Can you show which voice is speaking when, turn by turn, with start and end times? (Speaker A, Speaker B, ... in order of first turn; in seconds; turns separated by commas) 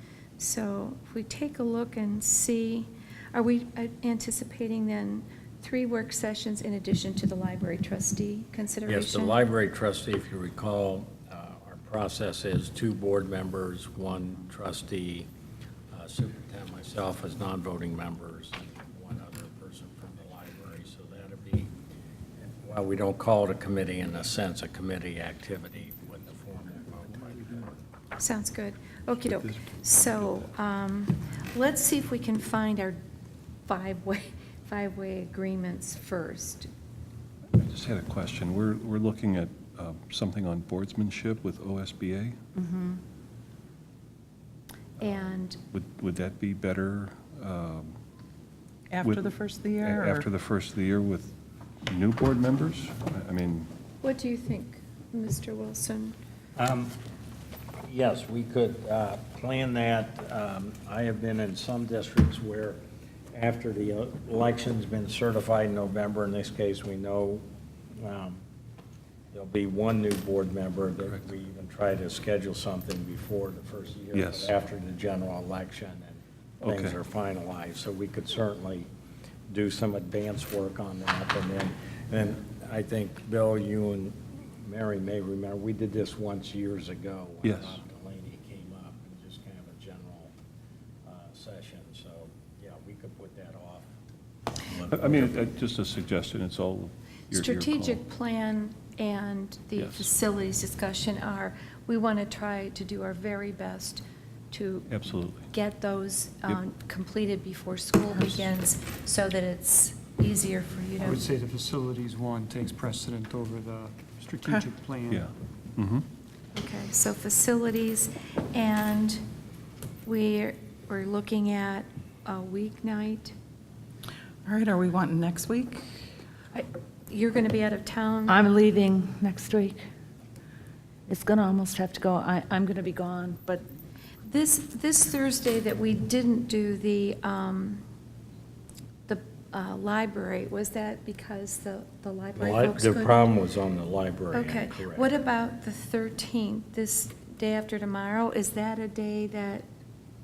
Speaker A: 0.4-9.4, Speaker B: 8.9-15.3, Speaker B: 15.9-21.7, Speaker B: 22.4-27.8, Speaker A: 28.2-33.0, Speaker C: 29.2-30.4, Speaker A: 33.7-36.7, Speaker C: 37.5-42.4, Speaker D: 42.5-43.0, Speaker A: 45.0-45.6, Speaker C: 45.0-47.9, Speaker D: 48.9-50.3, Speaker C: 49.0-53.7, Speaker A: 54.0-56.1, Speaker B: 56.6-56.9, Speaker B: 57.8-62.8, Speaker B: 63.3-67.4, Speaker B: 68.0-68.4, Speaker B: 69.3-78.9, Speaker C: 74.1-74.5, Speaker C: 76.6-77.0, Speaker B: 79.5-90.3, Speaker C: 87.4-87.8, Speaker B: 91.0-93.9, Speaker B: 94.6-95.4, Speaker C: 94.7-98.0, Speaker A: 97.3-111.2, Speaker C: 99.8-100.1, Speaker C: 104.9-105.5, Speaker E: 111.0-115.3, Speaker D: 114.4-114.7, Speaker C: 115.1-116.1, Speaker A: 116.5-119.2, Speaker A: 120.0-123.3, Speaker D: 124.5-126.0, Speaker A: 126.5-128.4, Speaker F: 128.3-129.8, Speaker F: 131.1-133.6, Speaker A: 134.3-137.8, Speaker A: 139.1-143.3, Speaker B: 142.3-145.1, Speaker A: 144.3-149.7